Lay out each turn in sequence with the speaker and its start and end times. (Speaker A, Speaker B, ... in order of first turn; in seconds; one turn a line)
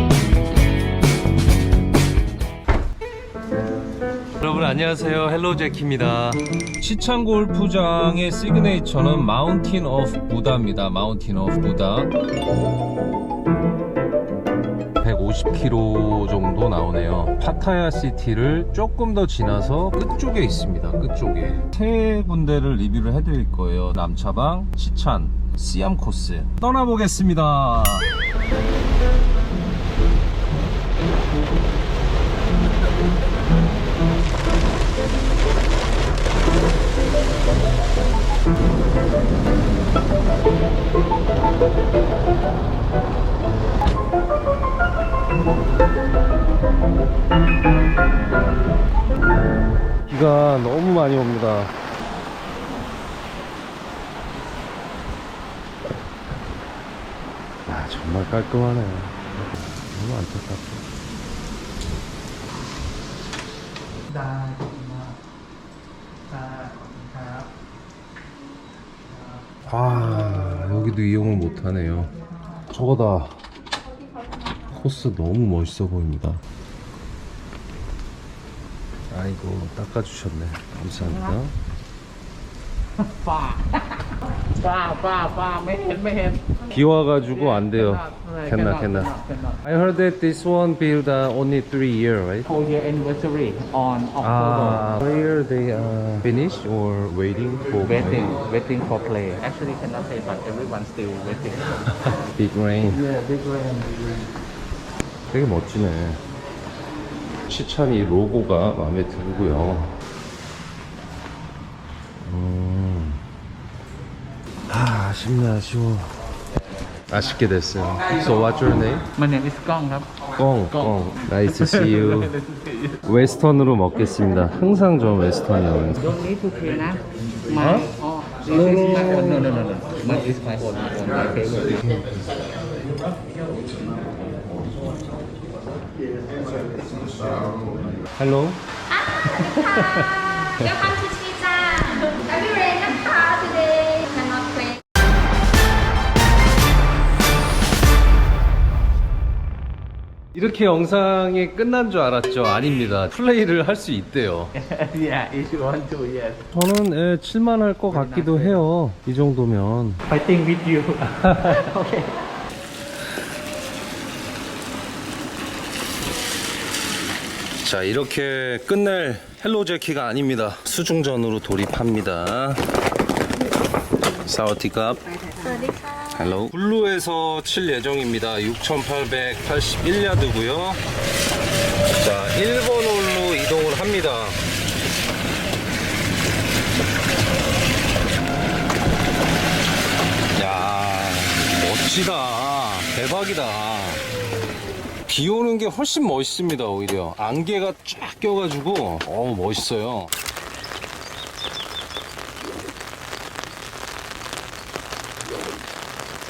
Speaker A: 4.4-12.1
Speaker A: 15.0-28.1
Speaker A: 50.1-51.7
Speaker A: 57.7-60.8
Speaker B: 64.1-65.2
Speaker B: 66.3-67.5
Speaker A: 69.7-72.1
Speaker A: 72.7-73.4
Speaker A: 74.7-76.4
Speaker A: 79.1-81.5
Speaker B: 81.0-81.4
Speaker B: 83.0-86.6
Speaker A: 86.7-89.1
Speaker B: 87.3-89.6
Speaker A: 89.6-92.5
Speaker B: 92.5-94.8
Speaker A: 94.2-98.4
Speaker B: 97.8-101.8
Speaker A: 102.0-103.0
Speaker B: 102.9-104.3
Speaker A: 105.3-106.2
Speaker A: 107.5-109.9
Speaker A: 112.2-113.2
Speaker A: 114.7-116.1
Speaker A: 117.1-119.1
Speaker B: 119.2-120.1
Speaker A: 120.4-122.3
Speaker B: 120.7-123.0
Speaker A: 123.0-126.1
Speaker B: 126.0-131.8
Speaker A: 127.6-127.9
Speaker A: 128.5-129.2
Speaker A: 131.7-132.1
Speaker A: 138.1-138.6
Speaker C: 138.9-144.8
Speaker A: 139.3-141.0
Speaker A: 150.3-154.5
Speaker B: 154.6-156.5
Speaker A: 156.5-160.0
Speaker B: 157.9-158.6
Speaker B: 160.1-162.2
Speaker A: 161.3-161.5
Speaker A: 167.6-172.6
Speaker A: 174.2-175.1
Speaker C: 175.4-176.4
Speaker A: 176.2-180.8
Speaker A: 182.0-184.4
Speaker A: 190.4-194.0
Speaker A: 195.1-200.1